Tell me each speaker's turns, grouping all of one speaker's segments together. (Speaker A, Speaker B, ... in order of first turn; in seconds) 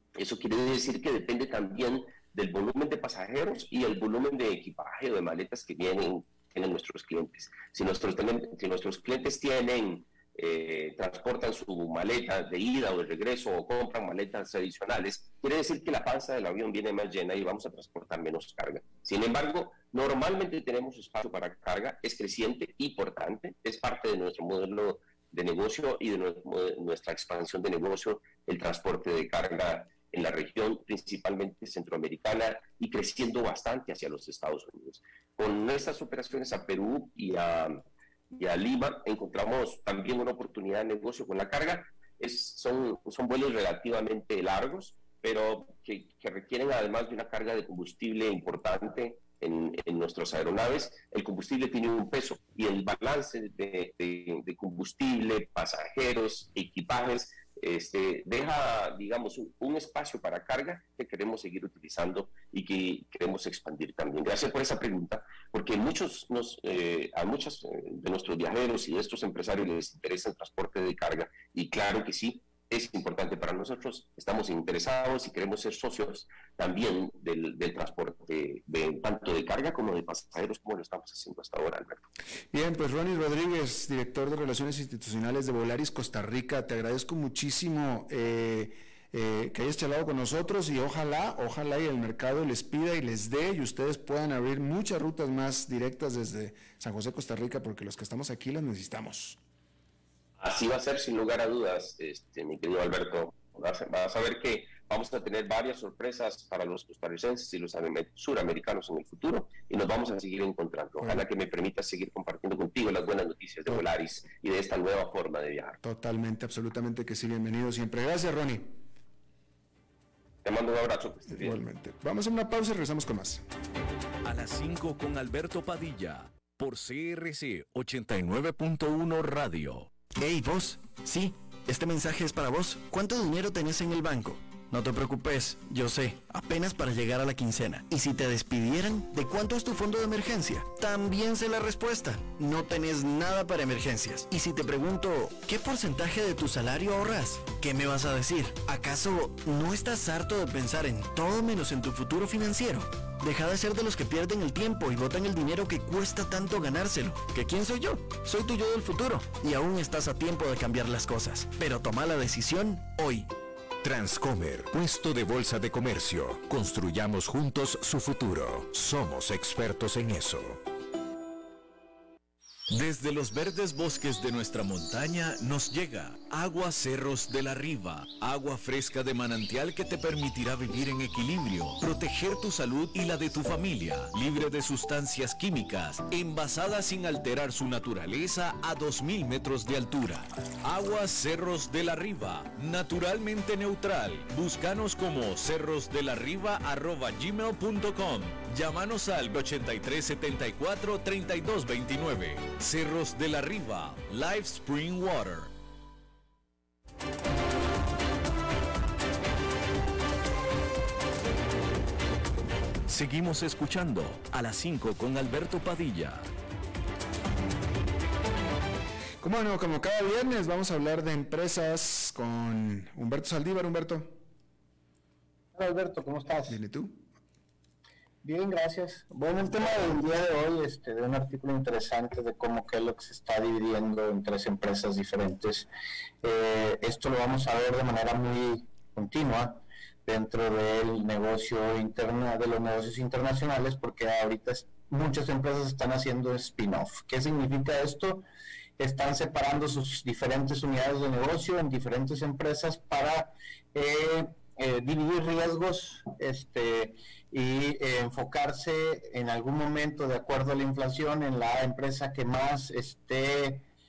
Speaker A: 0.1-82.0, 100.4-115.8, 120.4-121.6
Speaker B: 82.5-99.4, 115.8-118.8, 121.3-123.4, 219.2-224.2, 226.5-227.0
Speaker C: 124.2-129.9, 172.7-205.5, 212.9-216.3
Speaker D: 130.1-163.3
Speaker E: 163.8-170.6
Speaker F: 225.6-226.6, 228.2-235.7, 236.2-248.2, 248.8-263.6